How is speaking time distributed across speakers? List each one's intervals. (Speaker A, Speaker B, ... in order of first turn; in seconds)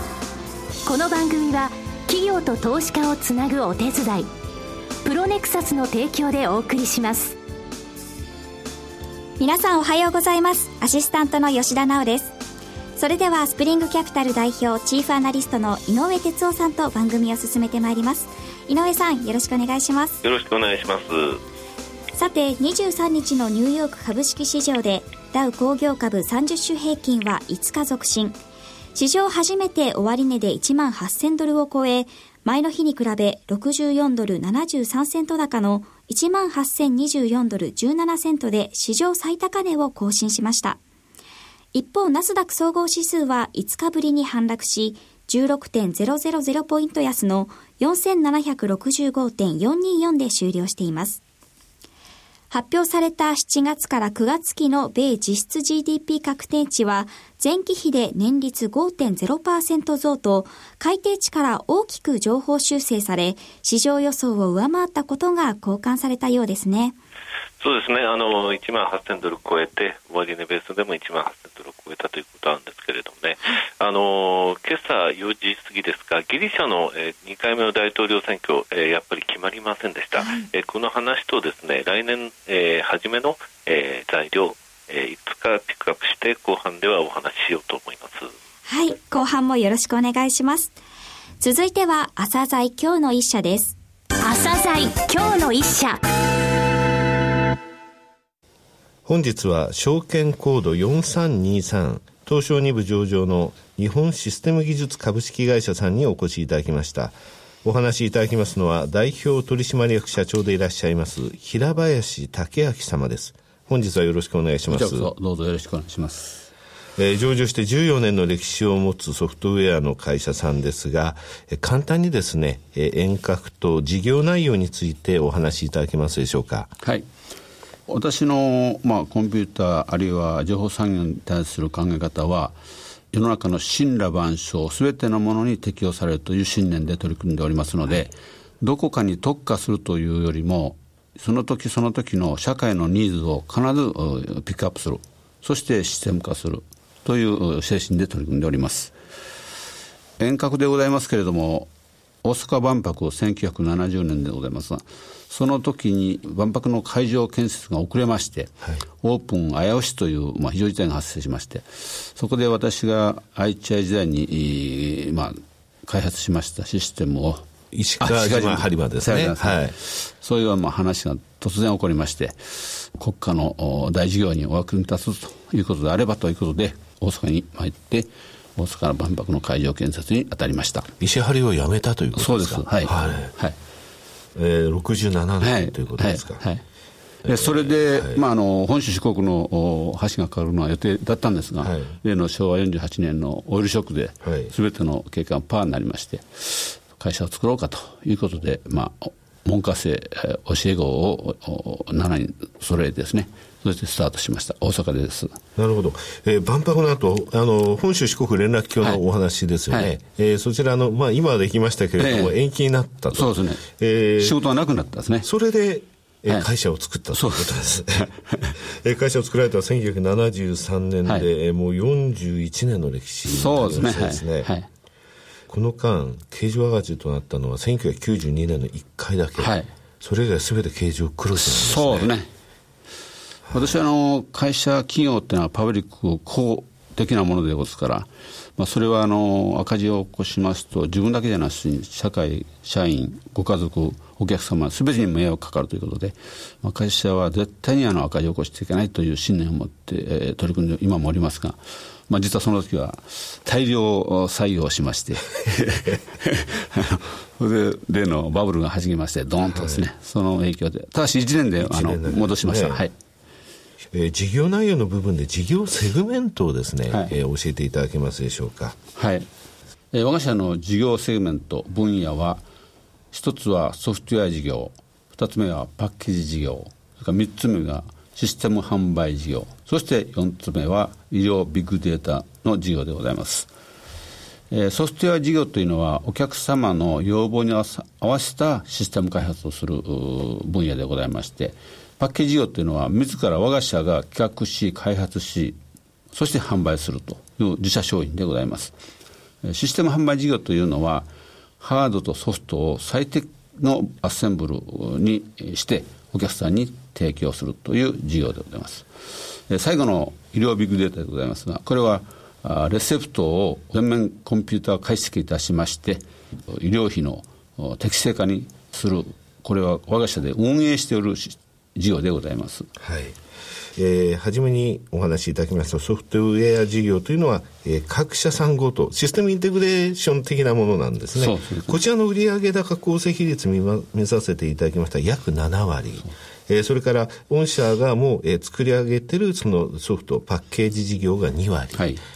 Speaker A: 0.8-4.3, 5.0-7.4, 94.2-96.0
Speaker B: 9.4-12.3, 13.0-20.2, 22.1-28.4, 28.9-40.8, 41.7-51.2, 52.5-67.0, 80.2-80.4, 88.7-90.7, 91.4-93.8
Speaker C: 20.2-21.4, 67.6-88.3
Speaker D: 99.0-115.1, 117.0-126.7, 167.7-169.7, 181.0-183.3, 184.3-186.4, 187.2-188.2, 191.6-191.9, 194.2-194.5, 205.6-214.4, 215.2-218.1, 218.6-224.5, 225.5-232.1, 233.5-233.8, 259.5-259.9, 261.6-262.8, 263.9-268.8, 322.8-323.1, 323.8-341.8
Speaker E: 114.7-116.5, 127.9-132.6, 133.1-148.9, 150.2-151.7, 152.2-167.4, 168.0-180.9, 182.1-183.6, 185.4-186.6, 187.2-205.4, 212.0-212.4, 213.1-213.6, 214.2-215.3, 217.1-218.6, 223.2-224.7, 229.4-229.7, 231.3-232.3, 233.5-251.6, 252.1-262.9, 268.9-269.3, 269.9-272.4, 273.1-283.5, 284.5-295.6, 296.1-298.7, 299.4-301.1, 301.6-308.9, 309.5-322.7, 331.1-331.8, 341.7-342.0